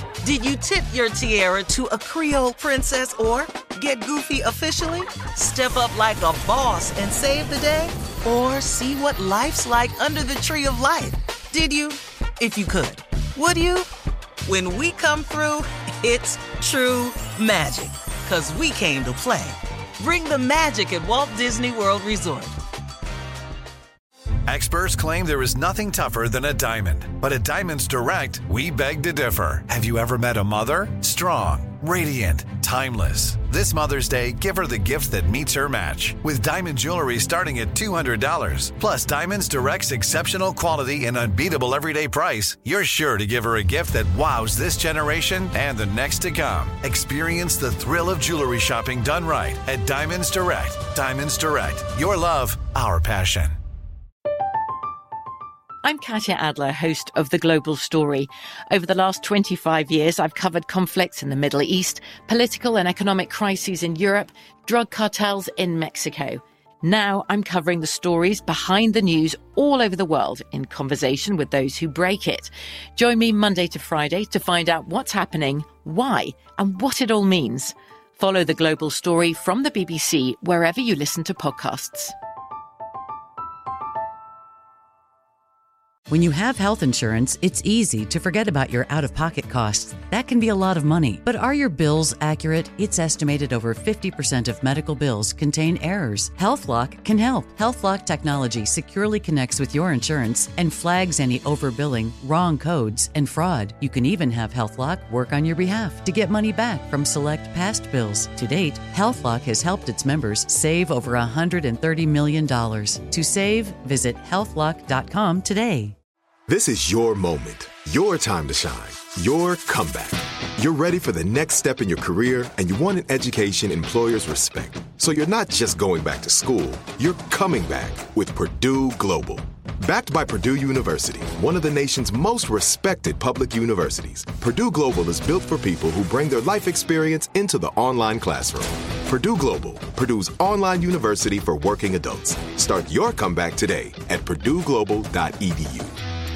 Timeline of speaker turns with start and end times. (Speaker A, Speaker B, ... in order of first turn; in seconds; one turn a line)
Speaker A: 0.2-1.4
Speaker B: 1.4-2.1
Speaker A: 2.1-5.1
Speaker B: 2.8-3.7
Speaker B: 5.1-6.6
Speaker A: 5.9-7.8
Speaker B: 7.8-13.9
Speaker B: 14.4-22.6
Speaker C: 24.5-53.6
Speaker D: 55.8-82.1
Speaker A: 86.1-115.9
Speaker E: 116.5-145.9